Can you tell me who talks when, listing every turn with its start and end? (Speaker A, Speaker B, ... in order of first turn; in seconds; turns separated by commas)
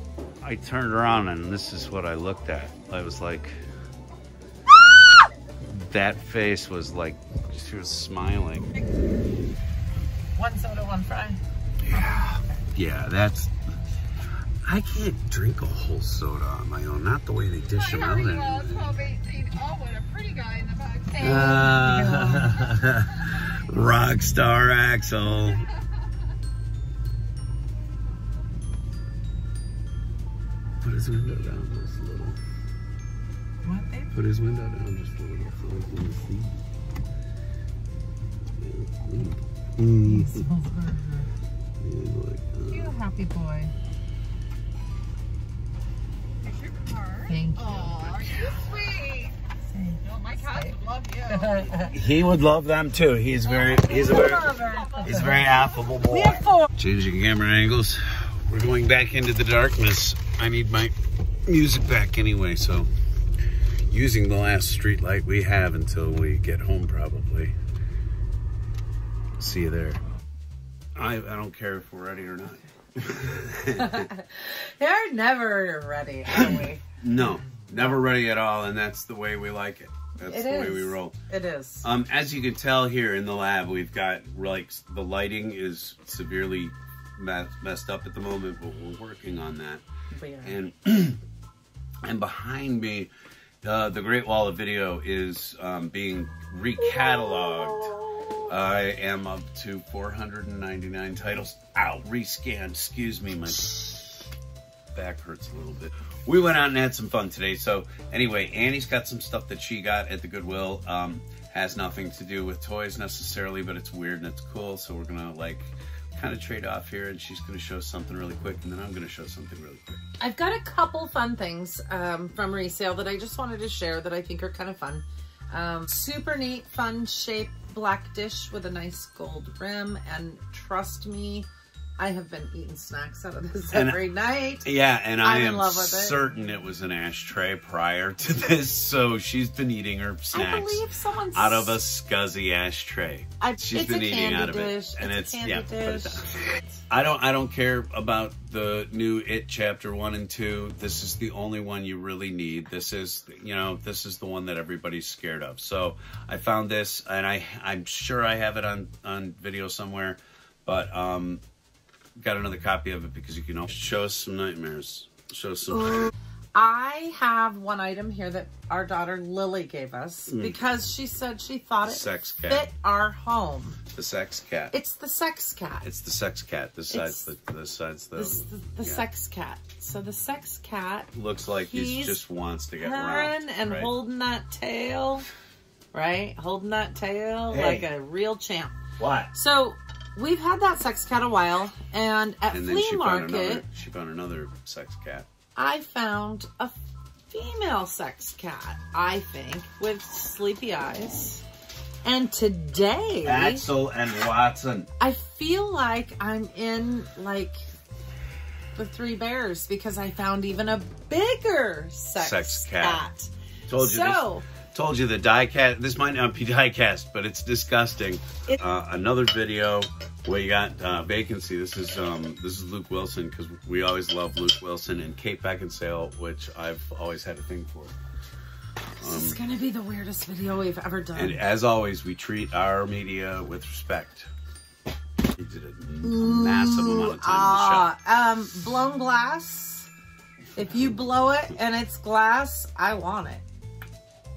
Speaker A: 0.4-3.6, Speaker A: 5.6-8.7, Speaker B: 10.3-11.4, Speaker A: 11.8-13.5, Speaker A: 14.6-19.0, Speaker C: 17.7-21.6, Speaker B: 21.2-22.6, Speaker A: 21.2-25.7, Speaker A: 30.8-32.4, Speaker B: 33.6-34.1, Speaker A: 34.1-36.6, Speaker A: 38.6-40.5, Speaker B: 40.0-41.3, Speaker A: 41.8-43.0, Speaker B: 42.7-43.7, Speaker C: 46.4-49.3, Speaker B: 47.3-48.0, Speaker B: 49.7-50.8, Speaker C: 50.0-51.9, Speaker B: 51.3-51.9, Speaker A: 51.9-60.9, Speaker C: 53.6-55.6, Speaker B: 54.4-55.0, Speaker A: 61.5-62.9, Speaker A: 63.9-67.5, Speaker A: 69.4-70.0, Speaker A: 71.0-74.1, Speaker B: 73.8-76.8, Speaker A: 76.2-81.1, Speaker B: 80.2-81.9, Speaker A: 81.8-89.8, Speaker B: 90.1-90.6, Speaker A: 90.4-91.2, Speaker A: 92.0-93.1, Speaker A: 93.6-104.2, Speaker B: 97.0-98.5, Speaker A: 104.9-120.0, Speaker B: 120.2-134.7, Speaker A: 133.7-134.0, Speaker A: 134.6-146.4, Speaker B: 135.2-136.2, Speaker B: 140.3-141.8, Speaker B: 143.4-146.3, Speaker A: 146.9-161.4, Speaker A: 162.2-166.1, Speaker B: 166.5-173.8, Speaker A: 170.3-170.6, Speaker A: 171.8-172.7, Speaker A: 173.9-174.7, Speaker B: 174.7-175.8, Speaker A: 175.8-179.1, Speaker B: 176.9-177.3, Speaker B: 178.1-181.1, Speaker A: 181.1-183.9, Speaker B: 181.7-182.2, Speaker B: 182.8-185.3, Speaker B: 185.9-188.8, Speaker A: 187.5-187.9, Speaker A: 189.0-189.3, Speaker B: 189.3-193.7, Speaker A: 192.5-195.3, Speaker B: 195.6-196.8, Speaker B: 197.3-201.4, Speaker B: 202.0-203.7, Speaker A: 203.2-204.9, Speaker B: 205.0-207.6, Speaker B: 208.7-214.5, Speaker A: 212.2-213.0, Speaker A: 213.7-227.9, Speaker B: 229.0-231.4, Speaker A: 229.0-229.4, Speaker A: 231.1-234.3, Speaker A: 235.3-237.9, Speaker B: 236.0-239.9, Speaker B: 240.6-243.4